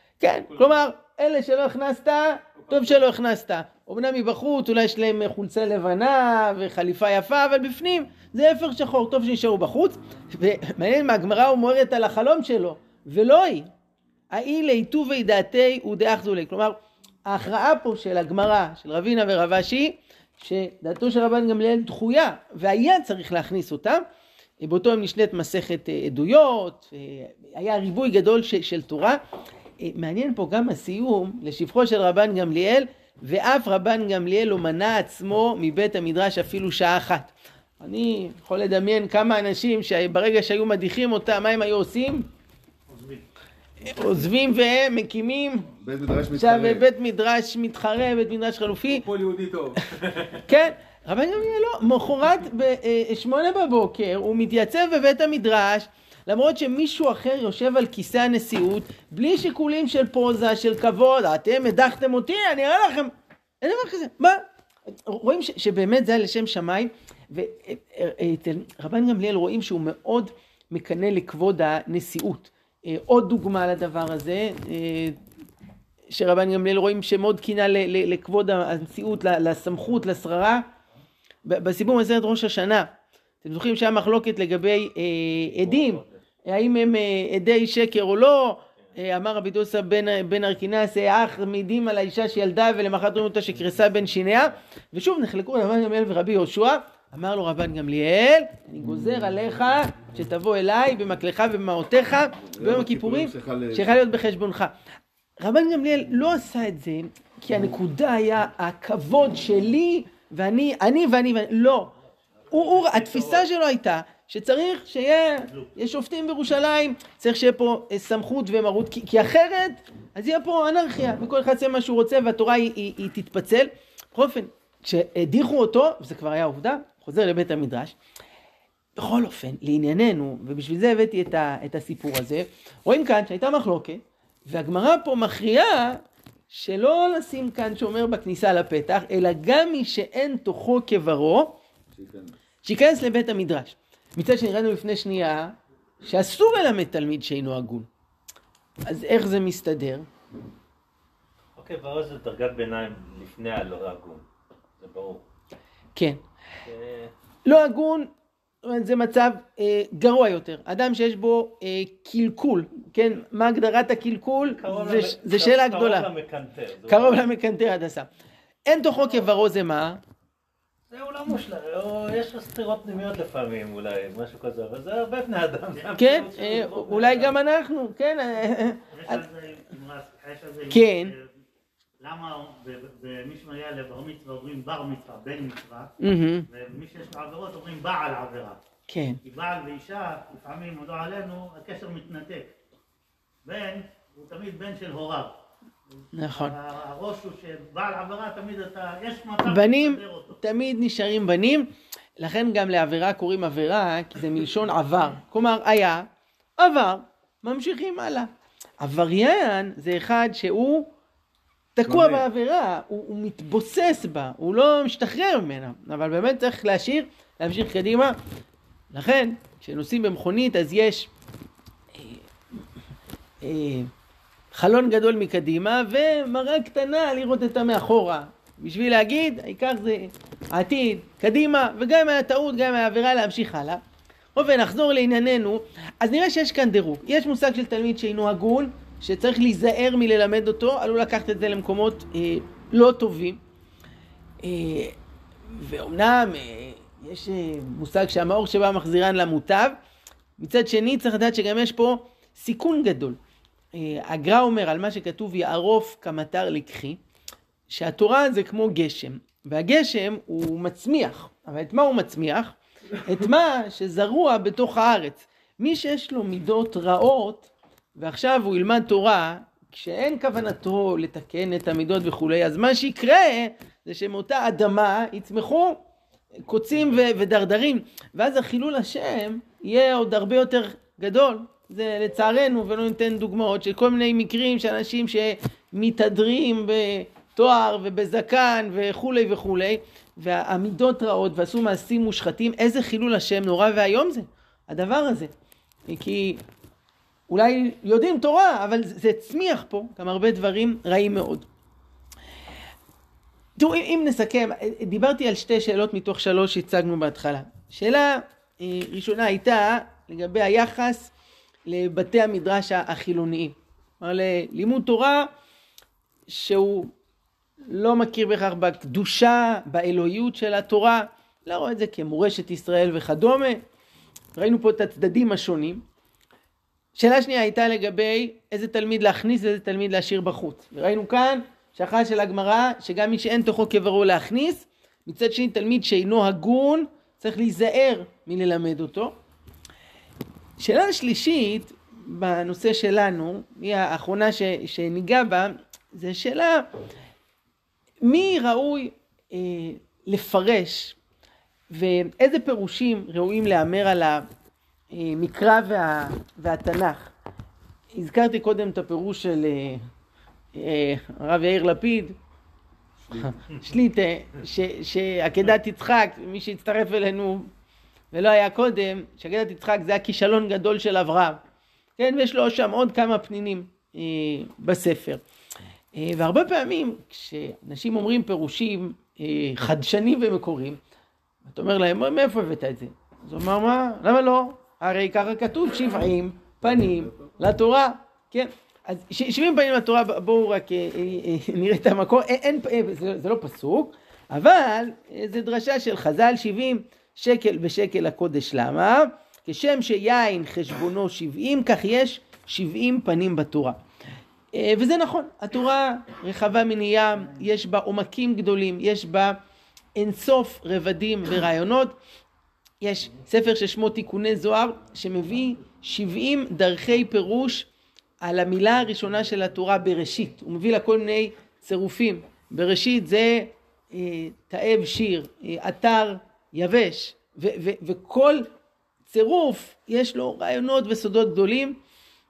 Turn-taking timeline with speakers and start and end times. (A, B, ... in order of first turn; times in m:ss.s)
0:00.2-0:13.7 A
0:00.4-0:00.8 B
0:02.6-0:03.1 B
0:14.3-0:24.0 A
0:24.6-0:29.2 A
0:29.8-0:37.3 A
0:37.8-0:42.3 A
0:42.9-0:43.2 C
0:43.8-0:45.7 A
0:45.8-0:46.9 D
0:46.4-0:49.1 A
0:48.8-0:50.4 B
0:50.4-1:15.2 A
1:16.1-1:20.6 A
1:21.4-1:22.9 A
1:23.4-1:44.7 A
1:25.6-1:26.2 E
1:42.4-1:44.0 D
1:45.4-1:51.9 A
1:52.5-2:07.9 A
2:09.0-2:21.6 A
2:21.9-2:22.4 D
2:22.6-2:27.9 A
2:28.9-2:30.0 A
2:31.6-2:34.2 E
2:34.8-2:35.2 E
2:36.0-2:36.2 A
2:36.6-2:37.1 E
2:37.4-2:38.1 A
2:38.6-2:46.1 A
2:44.4-2:47.3 E
2:46.9-2:48.1 A
2:48.6-2:50.0 A
2:50.9-2:57.3 E
2:55.7-2:56.2 C
2:56.0-2:59.2 A
2:58.9-3:01.3 C
3:00.7-3:01.1 A
3:02.0-3:06.0 C
3:06.0-3:06.4 A
3:06.5-3:08.6 C
3:08.9-3:09.2 A
3:09.2-3:12.5 C
3:13.4-3:15.3 C
3:16.1-3:16.5 A
3:16.3-3:20.4 C
3:19.4-3:28.3 A
3:28.8-3:30.9 A
3:31.8-3:38.1 A
3:31.8-3:32.2 D
3:38.9-3:41.1 A
3:41.9-3:42.2 A
3:43.4-3:43.9 A
3:44.5-3:53.8 A
3:54.4-4:03.4 A
4:04.4-4:04.9 A
4:05.5-4:09.8 A
4:10.4-4:13.2 A
4:13.7-4:17.0 A
4:17.7-4:35.8 A
4:36.4-4:55.3 A
4:55.9-4:56.4 A
4:57.3-5:01.5 A
5:03.6-5:11.1 A
5:11.7-5:15.3 A
5:16.3-5:16.9 A
5:17.7-5:23.6 A
5:24.4-5:25.8 A
5:27.0-5:39.1 A
5:40.6-5:46.6 A
5:48.0-5:51.0 A
5:51.7-5:54.2 A
5:54.9-5:57.1 A
5:57.9-5:59.8 A
6:00.5-6:02.2 A
6:03.0-6:03.4 D
6:03.2-6:07.5 A
6:08.1-6:11.4 A
6:12.0-6:15.2 A
6:15.9-6:20.8 A
6:21.4-6:43.8 A
6:26.6-6:27.4 D
6:44.5-6:49.4 A
6:50.0-6:52.0 A
6:52.8-6:57.7 A
6:58.2-7:08.5 A
7:09.1-7:11.8 A